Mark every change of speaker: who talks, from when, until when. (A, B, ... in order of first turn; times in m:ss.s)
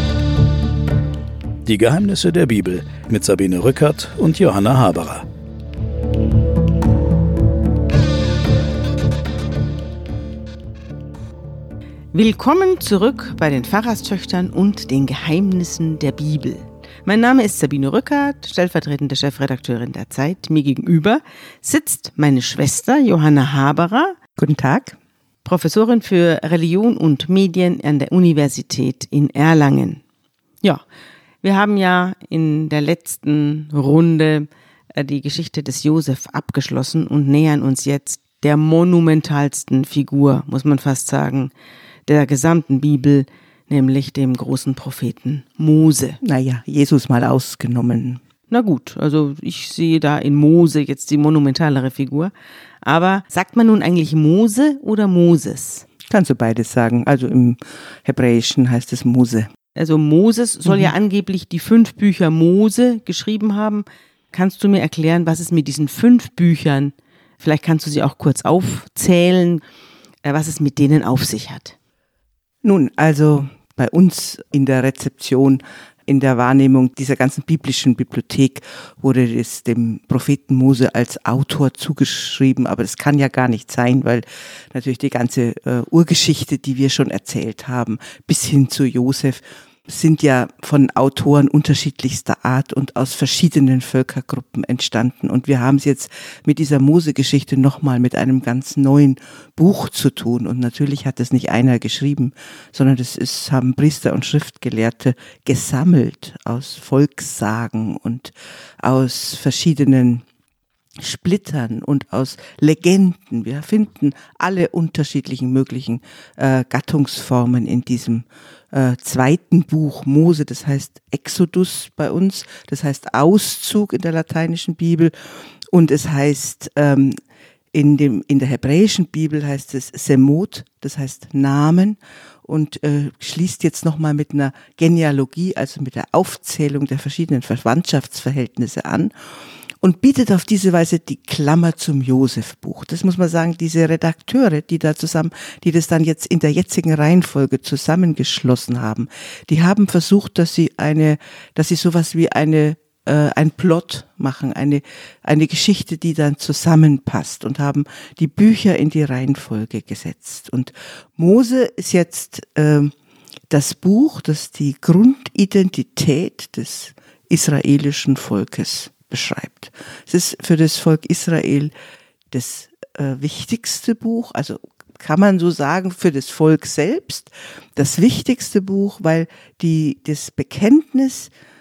0:01.6-0:05.2 A
0:12.1-0:24.2 B
0:24.4-0:25.0 C
0:25.4-0:30.0 B
0:31.4-0:41.5 B
0:42.1-0:46.2 B
0:46.2-0:48.2 C
0:48.5-0:52.3 B
0:52.8-0:55.8 B
0:56.0-0:59.5 C
0:59.8-1:09.6 B
1:00.6-1:00.9 C
1:10.2-1:11.7 B
1:12.6-1:50.2 C
1:51.0-2:07.2 C
2:07.7-2:19.1 C
2:19.8-2:42.9 C
2:43.5-2:51.7 C
2:52.3-3:01.3 C